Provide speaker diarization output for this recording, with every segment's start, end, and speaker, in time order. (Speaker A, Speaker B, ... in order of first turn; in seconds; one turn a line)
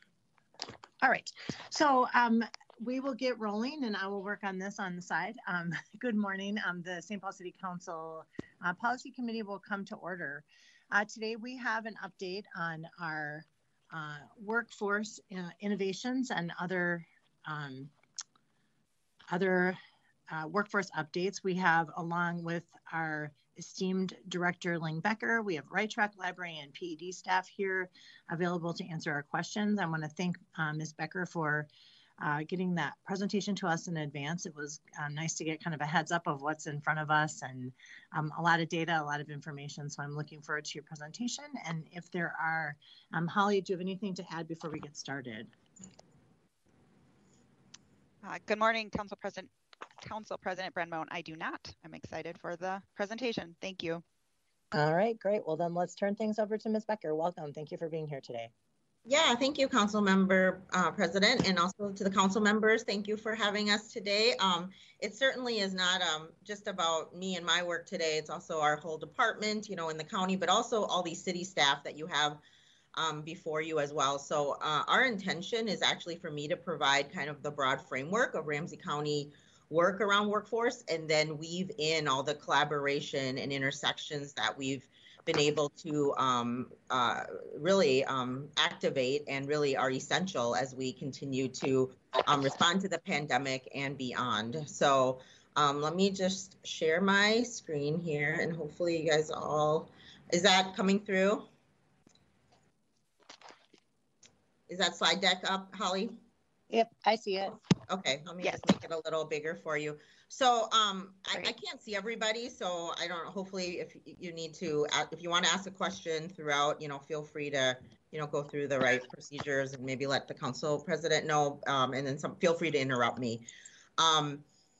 Speaker A: 1.0-17.9
Speaker A: 19.3-19.8
Speaker A: 20.3-45.5
Speaker B: 48.2-54.0
Speaker A: 54.7-58.5
Speaker C: 59.0-72.4
Speaker C: 72.9-101.5
Speaker C: 104.7-106.2
Speaker A: 106.7-107.5
Speaker C: 107.9-123.4
Speaker C: 124.0-124.4